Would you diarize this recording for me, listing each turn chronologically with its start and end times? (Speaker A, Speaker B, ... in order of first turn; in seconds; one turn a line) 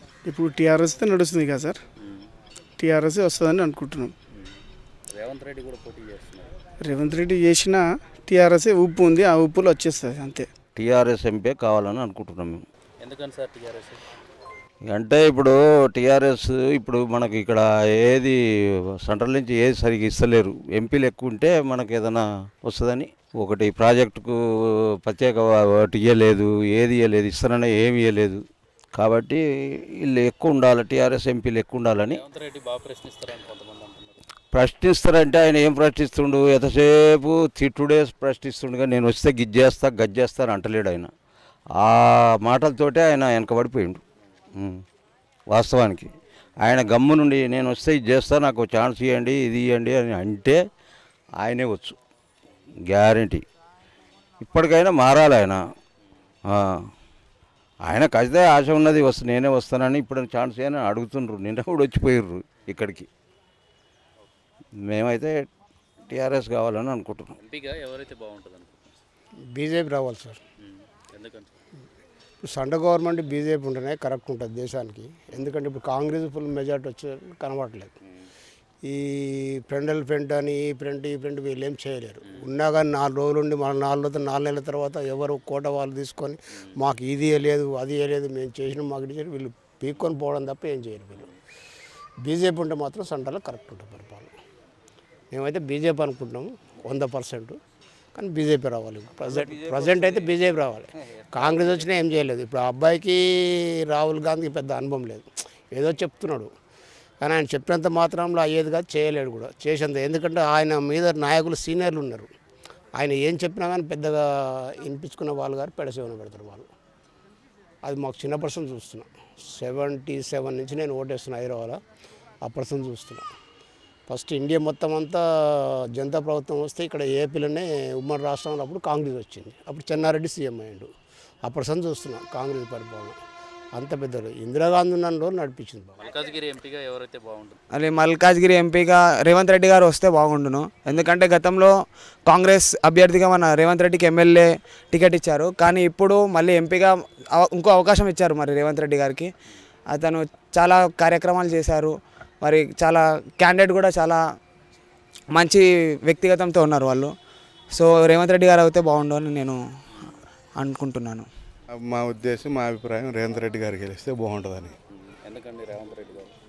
Speaker A: 0.2-1.8
Speaker A: 2.8-4.1
Speaker B: 5.1-6.5
Speaker A: 6.8-10.5
Speaker C: 10.8-12.6
Speaker B: 13.0-14.0
Speaker C: 14.9-18.4
Speaker C: 19.0-24.3
Speaker C: 25.0-28.4
Speaker C: 28.9-29.4
Speaker C: 30.0-32.2
Speaker B: 32.1-34.1
Speaker C: 34.5-41.1
Speaker C: 41.8-44.0
Speaker C: 45.5-46.1
Speaker C: 46.6-50.6
Speaker C: 51.4-52.0
Speaker C: 52.9-53.4
Speaker C: 54.4-55.6
Speaker C: 57.9-63.1
Speaker C: 64.8-65.3
Speaker C: 66.1-67.3
Speaker B: 67.4-69.0
Speaker D: 69.5-70.4
Speaker B: 71.1-71.5
Speaker D: 72.4-77.9
Speaker D: 78.8-91.3
Speaker D: 92.2-94.3
Speaker D: 95.3-97.6
Speaker D: 98.1-106.5
Speaker D: 107.2-112.3
Speaker D: 113.0-116.7
Speaker D: 117.8-121.8
Speaker D: 122.4-123.3
Speaker D: 124.1-130.9
Speaker D: 131.4-133.2
Speaker D: 133.7-136.0
Speaker B: 136.0-137.6
Speaker E: 137.7-141.7
Speaker E: 142.3-149.3
Speaker E: 149.9-154.2
Speaker E: 155.3-157.1
Speaker E: 157.8-159.6
Speaker E: 160.6-161.3
Speaker F: 161.9-164.7
Speaker B: 165.2-166.3